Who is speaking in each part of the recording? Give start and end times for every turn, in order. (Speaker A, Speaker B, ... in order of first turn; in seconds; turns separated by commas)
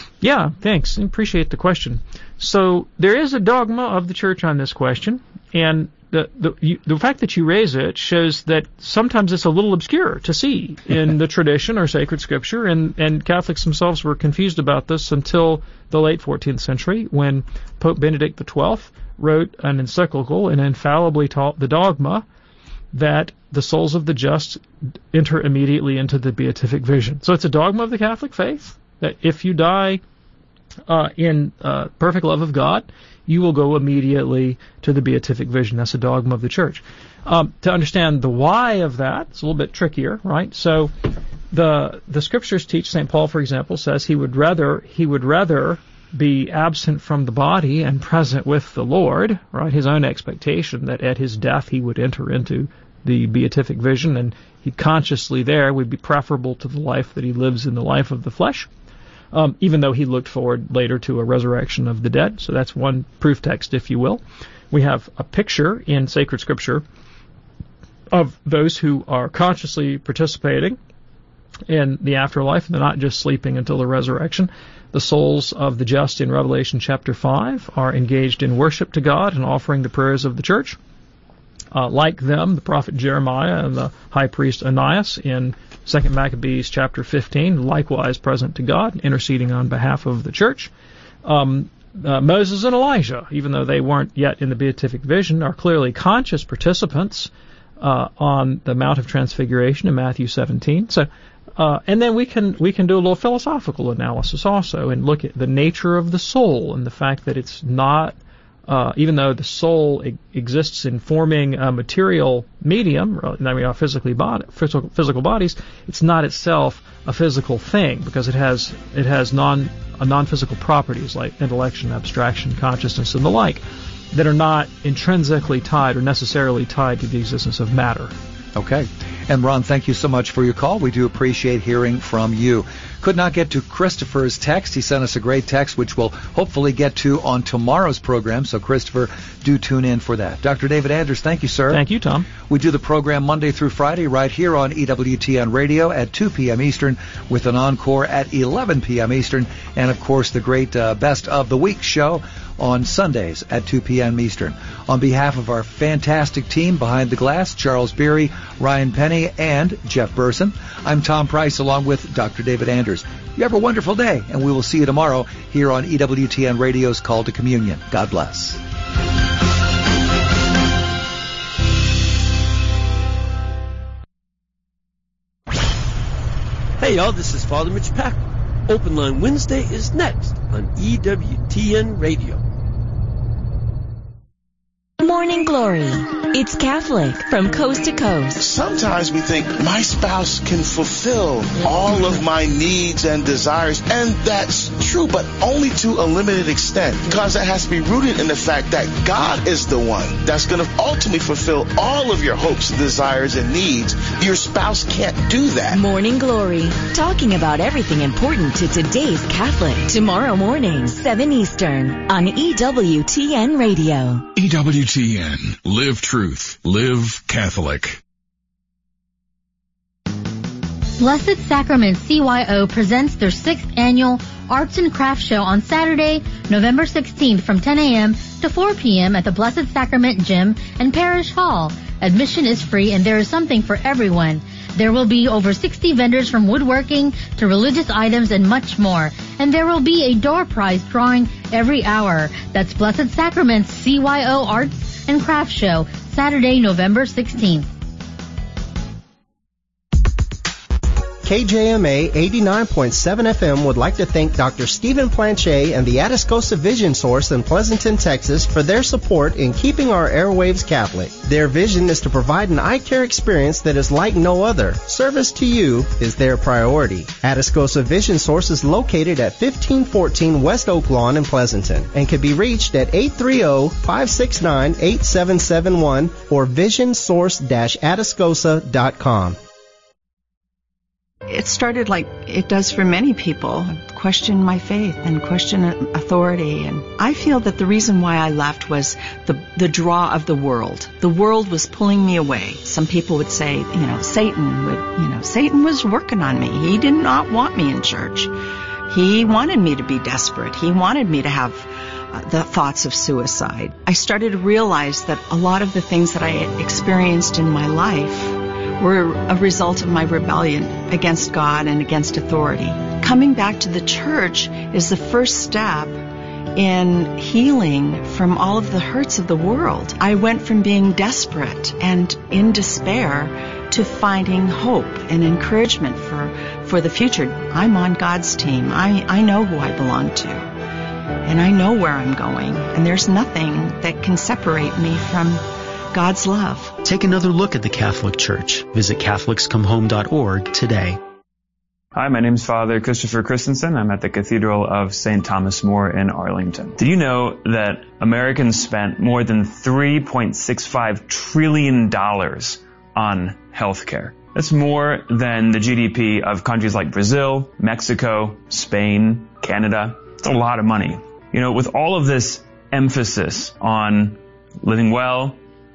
Speaker A: 0.2-22.2, Speaker A: 22.9-24.6, Speaker A: 25.1-30.0, Speaker A: 30.9-40.9, Speaker A: 41.5-58.7, Speaker A: 59.3-66.8, Speaker A: 68.1-70.8, Speaker A: 71.7-80.8, Speaker A: 81.7-90.7, Speaker A: 91.2-108.2, Speaker A: 108.7-128.1, Speaker B: 128.6-141.8, Speaker A: 141.7-142.3, Speaker B: 142.4-168.6, Speaker C: 176.8-182.4, Speaker D: 185.0-188.4, Speaker E: 188.4-205.8, Speaker D: 205.7-214.3, Speaker F: 214.3-218.0, Speaker G: 221.0-247.7, Speaker H: 251.2-279.4, Speaker I: 281.3-298.3, Speaker I: 298.9-316.0, Speaker I: 316.6-330.5, Speaker I: 331.2-336.8, Speaker J: 336.9-340.9, Speaker K: 341.9-365.4